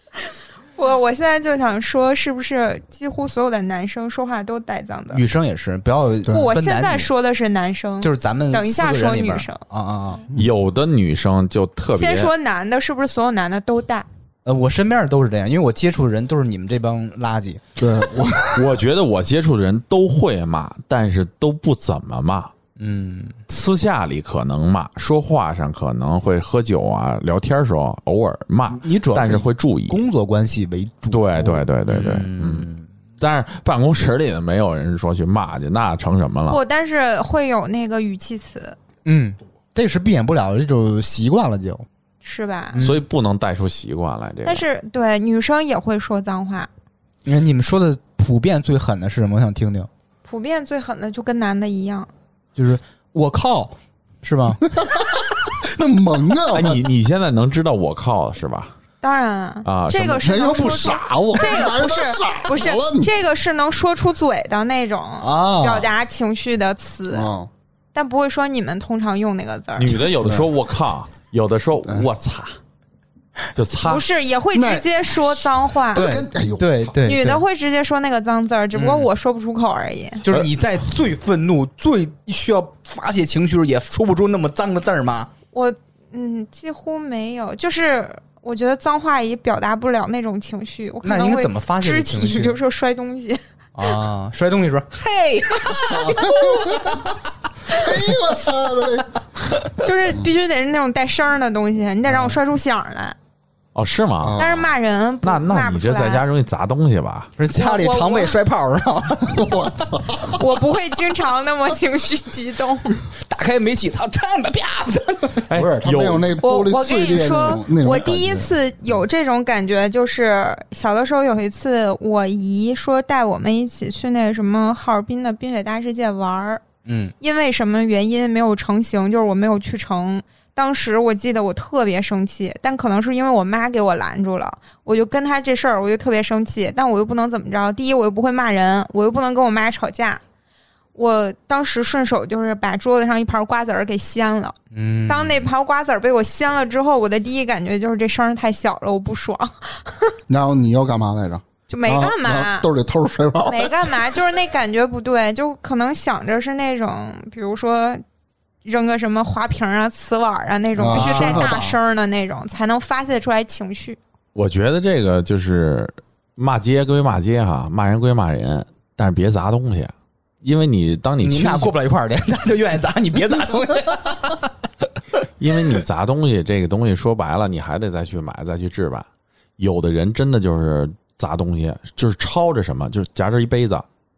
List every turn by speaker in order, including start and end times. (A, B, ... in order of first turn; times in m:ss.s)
0:00.8-0:05.2 A
0:05.1-0:07.1 B
0:06.3-0:09.6 A
0:08.0-0:10.3 B
0:10.4-0:12.3 C
0:11.9-0:14.1 A
0:14.5-0:17.6 B
0:17.8-0:18.7 D
0:18.5-0:22.5 C
0:22.8-0:23.4 B
0:23.5-0:30.0 C
0:28.7-0:32.9 B
0:31.1-0:32.7 C
0:33.2-0:36.6 C
0:36.5-0:38.8 A
0:39.1-0:41.8 B
0:42.2-0:42.8 A
0:42.7-0:43.0 B
0:42.8-0:44.6 C
0:44.4-0:46.7 A
0:47.3-0:49.9 B
0:50.2-0:52.1 A
0:52.6-0:54.6 B
0:54.8-0:56.9 D
0:56.5-0:58.7 C
0:59.0-1:07.3 A
0:59.6-1:00.5 C
1:00.2-1:03.1 D
1:05.2-1:05.9 B
1:07.1-1:07.5 D
1:07.9-1:10.1 A
1:09.8-1:12.6 C
1:13.6-1:14.1 C
1:13.8-1:16.1 A
1:14.5-1:14.8 D
1:15.9-1:16.9 D
1:15.9-1:17.4 B
1:17.0-1:20.2 A
1:18.7-1:19.1 B
1:20.2-1:25.3 B
1:25.5-1:33.4 A
1:31.0-1:32.6 B
1:33.8-1:37.1 B
1:35.9-1:37.1 D
1:37.7-1:39.2 D
1:39.8-1:43.2 A
1:42.1-1:42.4 B
1:43.8-1:44.4 C
1:44.2-1:44.7 D
1:44.4-1:46.2 A
1:45.2-1:47.3 C
1:47.4-1:49.6 B
1:47.6-1:48.4 A
1:49.2-1:50.6 D
1:50.3-1:53.0 A
1:53.2-1:55.5 B
1:55.5-1:56.3 C
1:55.5-1:58.6 D
1:56.4-2:06.6 A
2:06.9-2:07.1 B
2:07.2-2:20.2 A
2:21.0-2:30.2 A
2:24.7-2:25.4 B
2:30.3-2:34.1 D
2:31.7-2:32.7 A
2:33.4-2:38.0 A
2:38.6-2:44.0 A
2:40.8-2:41.8 D
2:40.9-2:41.6 B
2:44.4-2:51.7 C
2:51.2-2:54.4 B
2:55.4-2:59.1 C
2:59.6-3:03.8 C